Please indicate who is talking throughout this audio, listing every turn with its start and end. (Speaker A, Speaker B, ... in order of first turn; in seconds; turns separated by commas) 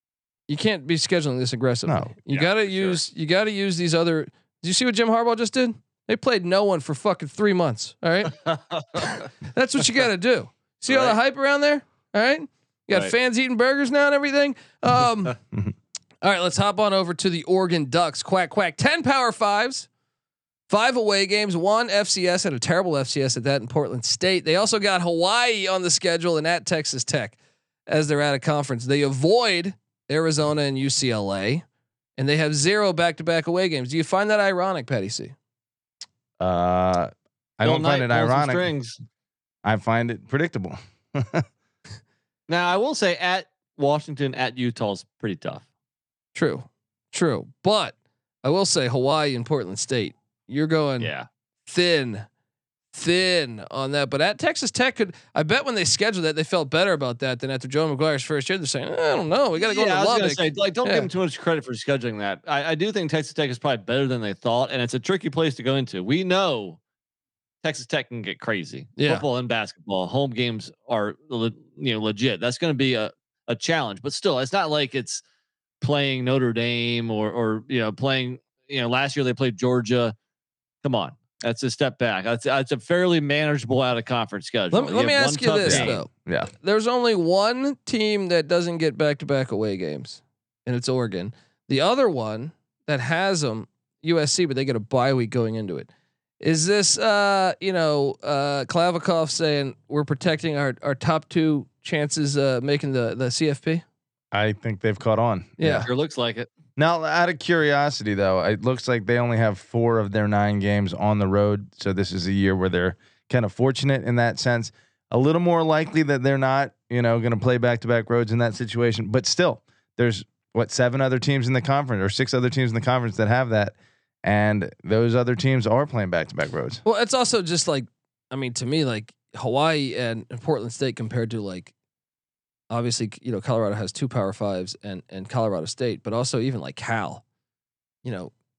Speaker A: 0.5-8.4, Speaker B: 1.9-2.1, Speaker C: 2.3-3.0, Speaker C: 8.3-9.2, Speaker A: 9.0-15.3, Speaker C: 10.9-11.2, Speaker A: 16.2-19.9, Speaker A: 20.7-27.4, Speaker A: 27.9-31.6, Speaker A: 32.2-35.3, Speaker B: 36.4-38.7, Speaker C: 37.6-39.0, Speaker B: 39.6-41.5, Speaker C: 42.5-45.6, Speaker A: 46.3-51.1, Speaker C: 51.0-51.3, Speaker A: 51.7-52.2, Speaker A: 52.9-61.1, Speaker C: 59.5-66.8, Speaker C: 67.6-75.2, Speaker A: 69.0-69.2, Speaker C: 75.8-80.1, Speaker C: 80.8-86.0, Speaker A: 84.7-95.9, Speaker B: 85.6-86.5, Speaker A: 96.4-103.8, Speaker B: 104.3-105.9, Speaker A: 105.6-105.9, Speaker C: 105.8-106.5, Speaker B: 106.8-126.8, Speaker A: 126.8-131.7, Speaker A: 132.7-137.2, Speaker A: 138.0-138.3